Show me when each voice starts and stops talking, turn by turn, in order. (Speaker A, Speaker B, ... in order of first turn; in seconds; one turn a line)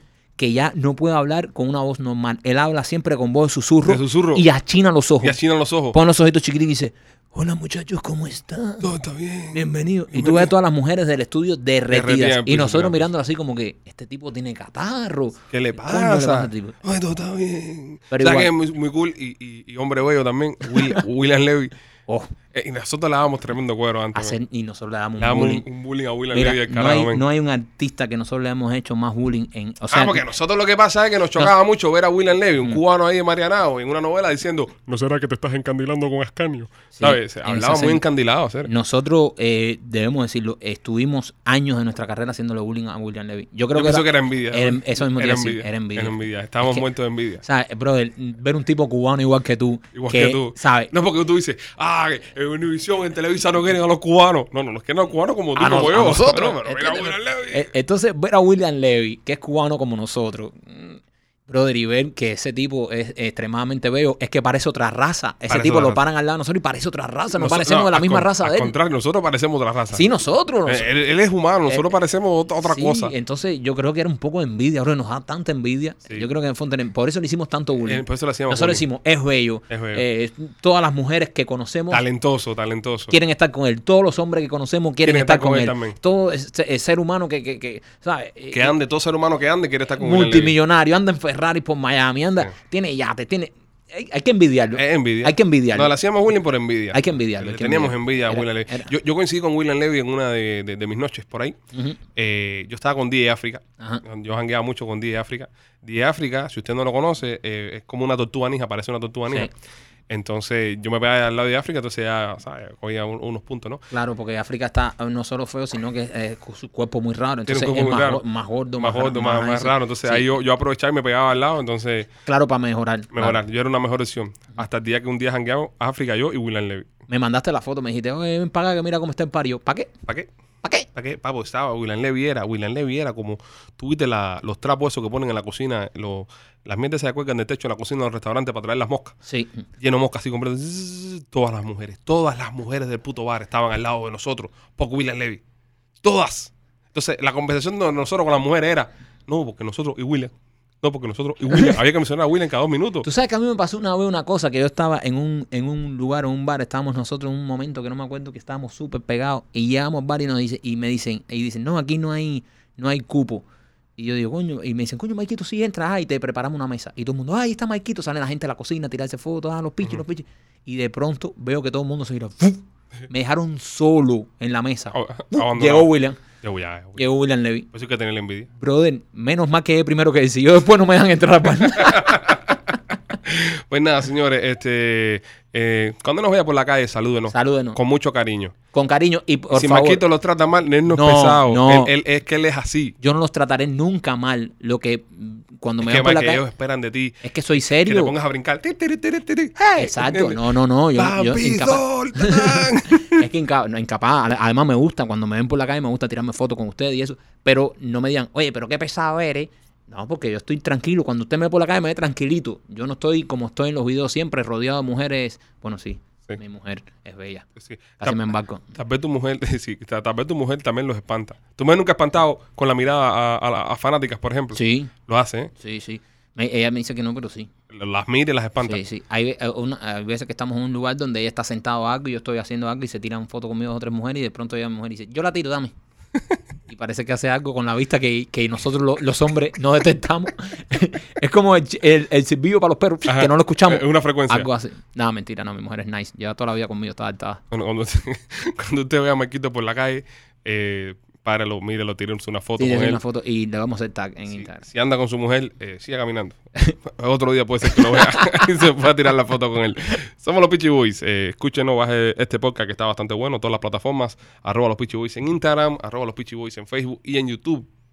Speaker A: 0.4-5.4
Speaker B: 3.8-4.5
Speaker B: 5.2-6.0
Speaker A: 5.9-8.9
Speaker B: 8.8-10.5
Speaker A: 9.5-16.8
Speaker B: 11.9-13.1
Speaker B: 15.5-21.7
Speaker A: 18.1-18.5
Speaker A: 22.1-22.3
Speaker B: 22.5-24.4
Speaker A: 24.1-25.6
Speaker B: 25.2-27.2
Speaker A: 26.3-30.2
Speaker B: 29.9-38.7
Speaker A: 37.0-38.0
Speaker A: 38.6-46.8
Speaker B: 43.7-47.4
Speaker A: 47.4-50.9
Speaker B: 49.9-57.7
Speaker A: 55.5-68.7
Speaker B: 65.5-66.0
Speaker B: 67.3-70.0
Speaker A: 69.9-70.9
Speaker B: 70.7-73.1
Speaker A: 72.7-82.0
Speaker B: 77.8-78.8
Speaker B: 79.7-80.0
Speaker B: 81.9-83.1
Speaker A: 83.1-88.8
Speaker B: 85.0-86.0
Speaker B: 88.5-90.5
Speaker A: 90.0-95.9
Speaker B: 94.7-101.6
Speaker A: 96.9-98.9
Speaker A: 101.7-102.0
Speaker B: 102.2-109.5
Speaker B: 110.1-113.8
Speaker A: 113.9-120.3
Speaker B: 117.5-118.2
Speaker B: 118.8-122.1
Speaker A: 122.2-123.4
Speaker B: 123.1-126.9
Speaker A: 127.1-129.9
Speaker B: 130.9-139.2
Speaker A: 139.2-139.6
Speaker B: 139.8-145.4
Speaker B: 146.0-153.1
Speaker A: 151.5-151.8
Speaker A: 153.0-163.4
Speaker A: 164.0-176.2
Speaker B: 174.9-175.9
Speaker B: 176.4-177.0
Speaker A: 177.0-177.7
Speaker B: 177.7-178.5
Speaker A: 178.6-182.5
Speaker B: 181.8-188.6
Speaker A: 187.3-187.8
Speaker A: 188.7-190.0
Speaker B: 189.5-192.9
Speaker A: 190.9-191.9
Speaker A: 193.0-196.4
Speaker B: 195.8-197.2
Speaker A: 197.2-198.1
Speaker B: 197.8-200.4
Speaker A: 199.6-217.4
Speaker B: 200.9-203.2
Speaker B: 217.6-225.5
Speaker A: 218.0-218.7
Speaker A: 224.5-224.9
Speaker A: 225.6-227.5
Speaker B: 227.7-228.8
Speaker A: 228.6-235.7
Speaker A: 236.7-247.4
Speaker B: 243.1-244.5
Speaker B: 247.5-253.0
Speaker A: 252.6-254.6
Speaker B: 254.3-267.7
Speaker A: 257.7-258.3